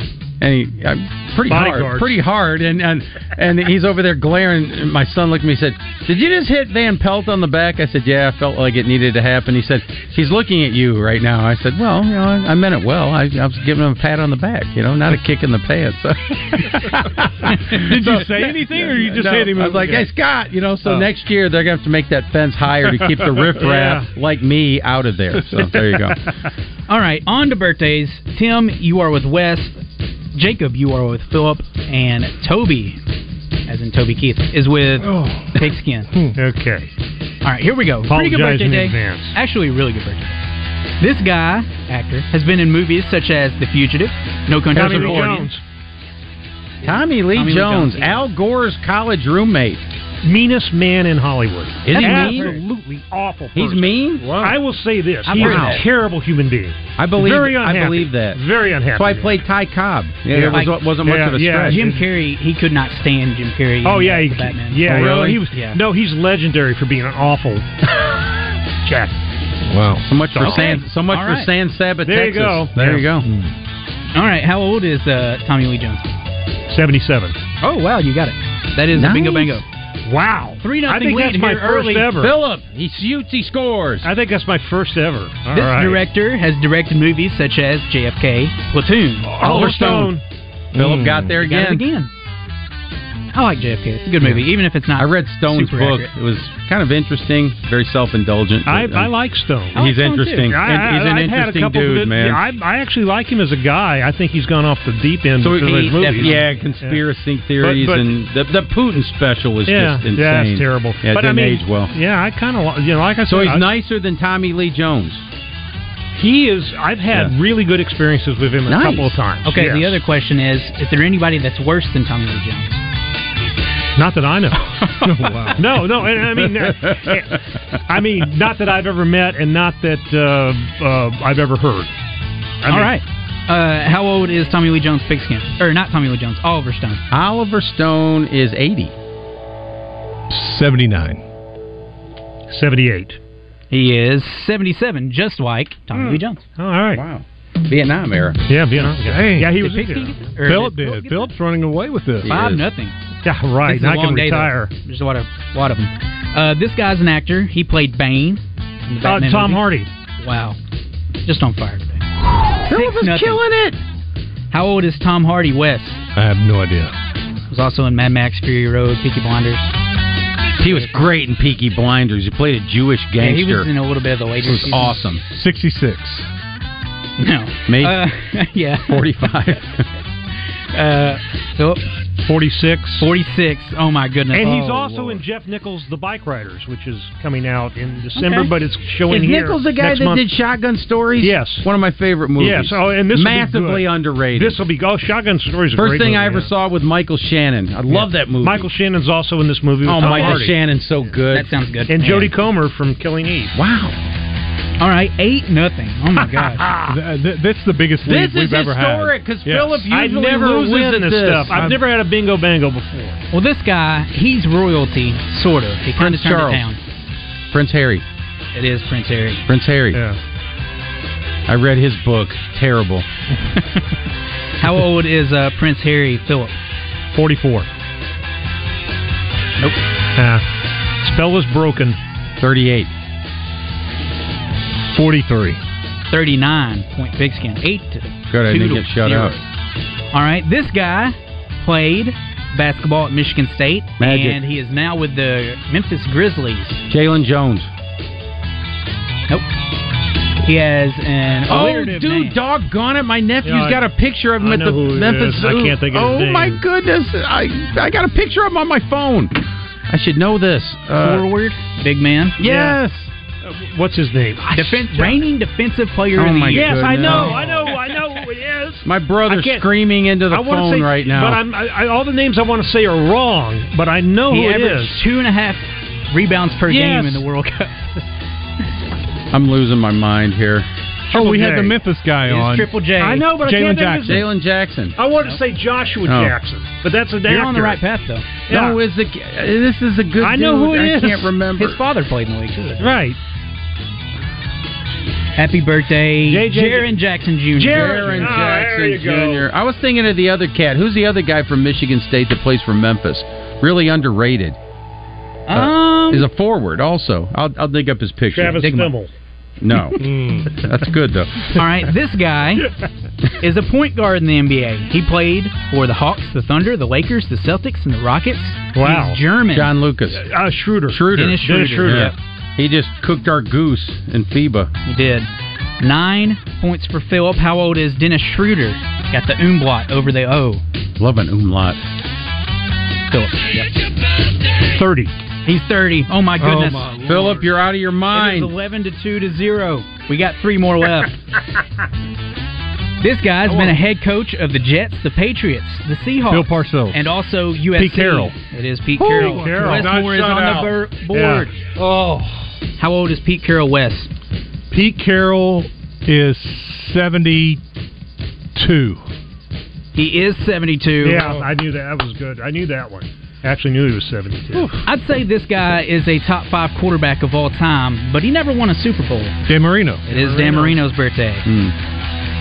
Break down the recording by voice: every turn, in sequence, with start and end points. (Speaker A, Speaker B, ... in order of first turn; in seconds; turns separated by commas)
Speaker A: 0.4-26.2, Speaker B: 1.5-2.2, Speaker C: 17.7-20.1, Speaker B: 23.6-24.1, Speaker D: 26.9-29.7, Speaker D: 30.3-33.0, Speaker D: 33.7-36.1, Speaker C: 35.0-36.4, Speaker B: 36.4-36.9, Speaker D: 37.4-40.4, Speaker B: 38.1-39.3, Speaker D: 41.0-45.4, Speaker A: 44.7-45.5, Speaker B: 44.7-45.6, Speaker A: 46.8-49.8, Speaker D: 47.3-48.3, Speaker B: 50.2-59.4, Speaker A: 51.8-52.6, Speaker D: 51.9-52.6, Speaker A: 53.5-54.5, Speaker D: 55.2-55.8, Speaker A: 55.3-55.8, Speaker A: 57.0-58.4, Speaker A: 58.9-61.9, Speaker B: 60.3-62.0, Speaker D: 60.5-60.8, Speaker D: 61.6-65.8, Speaker B: 63.8-68.1, Speaker A: 64.8-65.4, Speaker B: 68.8-69.2, Speaker C: 69.7-70.0, Speaker A: 70.0-73.2, Speaker B: 70.3-70.7, Speaker D: 70.4-71.5, Speaker B: 72.0-73.1, Speaker D: 74.1-76.1, Speaker B: 76.7-77.3, Speaker D: 77.6-79.6, Speaker A: 78.9-79.6, Speaker B: 80.0-82.3, Speaker D: 80.6-82.2, Speaker A: 82.2-84.1, Speaker B: 84.0-86.0, Speaker D: 85.5-89.3, Speaker B: 89.2-90.2, Speaker A: 89.4-90.2, Speaker C: 90.7-91.3, Speaker A: 90.7-91.8, Speaker D: 91.4-92.1, Speaker D: 93.3-96.1, Speaker A: 95.0-99.1, Speaker B: 98.7-99.8, Speaker D: 99.7-100.5, Speaker A: 99.7-102.4, Speaker B: 100.5-107.0, Speaker A: 105.4-111.9, Speaker D: 106.0-106.6, Speaker B: 107.6-108.2, Speaker B: 109.7-113.7, Speaker A: 113.2-115.2, Speaker B: 116.2-120.0, Speaker A: 118.7-119.1, Speaker D: 119.4-122.8, Speaker B: 124.0-124.7, Speaker D: 124.8-125.5, Speaker C: 125.0-125.7, Speaker B: 125.5-127.3, Speaker A: 126.6-127.2, Speaker B: 127.9-131.9, Speaker B: 132.6-133.0, Speaker D: 132.7-137.0, Speaker A: 137.1-138.9, Speaker C: 140.3-141.2, Speaker B: 142.5-143.2, Speaker D: 143.7-146.4, Speaker A: 145.9-146.2, Speaker B: 146.6-147.0, Speaker A: 146.9-148.4, Speaker B: 148.5-150.3, Speaker C: 149.0-149.5, Speaker D: 149.5-151.3, Speaker C: 150.4-152.3, Speaker A: 152.2-152.6, Speaker D: 152.2-152.9, Speaker B: 153.2-154.7, Speaker D: 153.6-159.7, Speaker B: 159.0-159.9, Speaker D: 160.2-160.6, Speaker D: 161.2-162.0, Speaker A: 162.6-163.8, Speaker D: 162.7-163.4, Speaker D: 164.5-166.0, Speaker C: 166.1-166.9, Speaker D: 167.5-169.7, Speaker A: 170.6-173.7, Speaker D: 173.2-175.0, Speaker A: 174.4-175.2, Speaker C: 175.3-176.3, Speaker D: 177.2-179.0, Speaker A: 177.7-178.0, Speaker A: 178.9-179.8, Speaker D: 180.7-181.8, Speaker B: 182.2-183.1, Speaker D: 183.0-184.6, Speaker B: 184.3-190.3, Speaker C: 184.5-185.1, Speaker A: 188.2-188.5, Speaker A: 189.1-194.6, Speaker B: 191.2-191.6, Speaker B: 192.4-196.5, Speaker A: 195.7-198.7, Speaker B: 197.9-200.6, Speaker A: 199.8-201.5, Speaker D: 200.0-200.3, Speaker D: 201.3-202.3, Speaker B: 201.9-203.5, Speaker A: 203.5-203.9, Speaker D: 204.8-206.7, Speaker B: 206.3-206.9, Speaker C: 206.9-209.9, Speaker A: 208.0-211.7, Speaker B: 209.9-213.2, Speaker D: 213.3-216.8, Speaker A: 216.0-216.7, Speaker A: 217.5-218.0, Speaker D: 218.5-219.4, Speaker A: 219.5-220.0, Speaker B: 219.9-220.2, Speaker A: 221.5-223.0, Speaker D: 223.6-223.8, Speaker D: 224.6-226.6, Speaker B: 227.1-227.7, Speaker B: 230.2-230.4, Speaker B: 231.0-232.0, Speaker A: 232.4-232.9, Speaker C: 234.9-235.6, Speaker D: 236.1-239.4, Speaker A: 238.3-239.4, Speaker D: 240.1-246.8, Speaker A: 244.0-244.4, Speaker A: 246.9-247.7, Speaker D: 250.4-252.3, Speaker A: 251.5-259.4, Speaker B: 253.4-253.8, Speaker B: 254.4-256.6, Speaker A: 259.9-261.2, Speaker D: 261.0-262.4, Speaker A: 262.4-263.1, Speaker B: 262.4-262.8, Speaker B: 263.4-265.2, Speaker D: 264.5-267.8, Speaker A: 266.1-267.4, Speaker B: 266.5-269.7, Speaker A: 268.8-271.4, Speaker B: 270.3-275.0, Speaker D: 274.3-277.7, Speaker B: 276.6-277.2, Speaker A: 279.3-280.6, Speaker B: 281.1-281.7, Speaker C: 281.1-282.7, Speaker D: 282.2-283.3, Speaker B: 283.0-284.3, Speaker C: 283.4-284.2, Speaker A: 284.0-284.9, Speaker B: 284.9-287.8, Speaker A: 286.0-286.3, Speaker D: 287.3-288.3, Speaker B: 288.5-288.8, Speaker A: 288.5-291.8, Speaker B: 290.2-291.3, Speaker D: 291.6-293.0, Speaker B: 292.8-293.2, Speaker D: 295.4-298.4, Speaker B: 296.2-296.9, Speaker B: 297.6-299.4, Speaker A: 297.6-304.6, Speaker D: 305.5-306.2, Speaker A: 305.5-308.9, Speaker B: 308.3-309.1, Speaker A: 309.6-311.6, Speaker C: 310.0-310.6, Speaker D: 311.5-312.7, Speaker D: 313.4-319.7, Speaker B: 318.7-319.2, Speaker A: 319.5-320.3, Speaker B: 320.1-322.1, Speaker A: 320.9-324.7, Speaker D: 321.1-322.1, Speaker D: 324.9-325.3, Speaker D: 325.8-330.6, Speaker A: 331.0-331.8, Speaker D: 333.1-333.6, Speaker B: 334.7-335.1, Speaker D: 335.4-336.9, Speaker C: 336.4-337.4, Speaker A: 337.0-338.5, Speaker D: 338.1-341.1, Speaker D: 343.0-351.5, Speaker C: 343.5-343.7, Speaker C: 346.3-347.0, Speaker C: 347.7-348.3, Speaker C: 349.0-350.8, Speaker B: 349.2-349.9, Speaker B: 351.1-351.5, Speaker C: 351.8-352.4, Speaker D: 352.8-354.1, Speaker C: 354.7-357.6, Speaker C: 358.5-359.0, Speaker D: 359.9-361.4, Speaker B: 361.0-364.8, Speaker D: 364.8-369.4, Speaker C: 369.5-370.0, Speaker B: 370.1-370.8, Speaker D: 370.1-371.5, Speaker A: 371.4-371.7